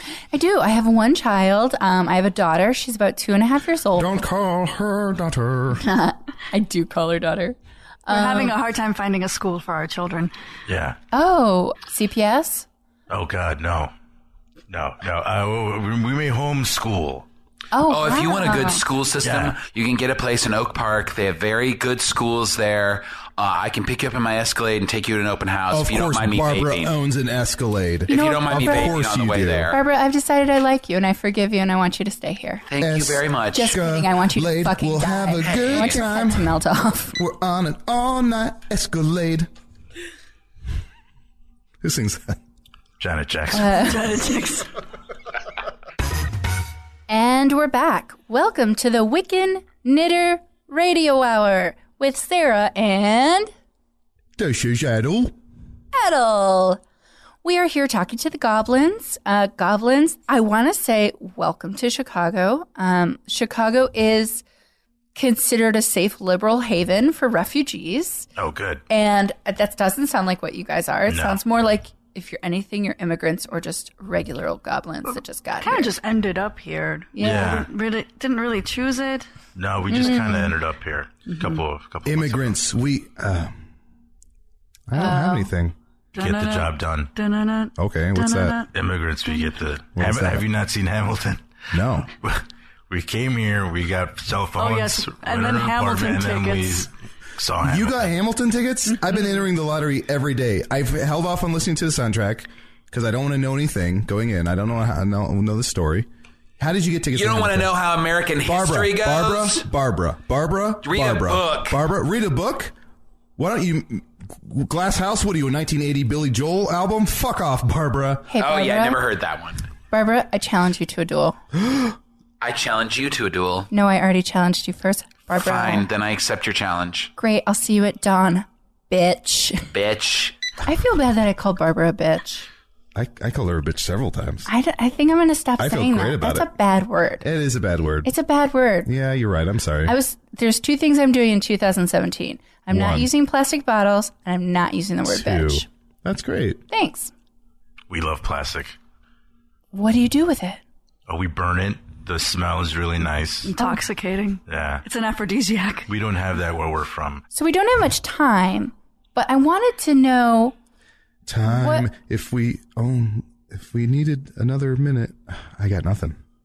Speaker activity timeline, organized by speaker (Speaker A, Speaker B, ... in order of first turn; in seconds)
Speaker A: 0.3-4.2, 5.8-8.5, 11.1-12.7, 17.7-18.8, 28.1-28.9, 29.7-32.6, 33.5-37.2, 43.5-44.1, 47.1-53.5, 55.9-56.8, 57.4-64.4, 65.1-68.3, 68.9-75.9, 77.1-77.6, 79.9-80.5, 84.9-85.5, 118.3-119.0, 119.9-121.4, 123.7-125.8, 127.2-129.7, 130.6-132.5, 134.4-137.2, 138.0-138.9, 139.8-145.7, 146.7-147.1, 149.7-150.6, 157.3-160.5, 161.4-161.9
Speaker B: 4.0-5.8, 25.7-29.7, 32.8-36.5, 37.1-39.5, 41.8-42.4, 54.4-55.3, 82.0-83.6, 84.9-85.8, 87.8-88.6, 90.0-90.5, 91.7-92.1, 97.6-106.1, 106.6-107.8, 108.4-112.7, 113.4-118.3, 121.6-121.9, 132.9-134.5, 135.6-136.5, 137.2-138.1, 138.8-139.9, 142.7-143.1, 145.1-146.6, 161.2-166.2
Speaker C: 8.1-10.3, 43.7-44.7, 75.6-79.3, 81.3-81.6, 86.1-88.7, 94.6-96.9, 153.4-155.9
Speaker D: 10.7-11.0, 13.1-13.9, 14.7-17.2, 19.2-19.6, 43.0-43.9, 68.3-68.8, 71.1-71.4, 77.2-77.7, 79.5-82.6, 86.2-87.1, 88.7-91.5, 92.2-98.1, 147.9-148.7, 151.1-153.5, 154.5-154.8, 155.9-157.2
Speaker E: 17.9-26.9, 28.1-29.8, 32.7-33.7, 35.5-35.9, 107.1-109.6, 110.8-111.8, 118.4-119.6, 122.4-123.7, 125.3-127.1, 129.7-130.3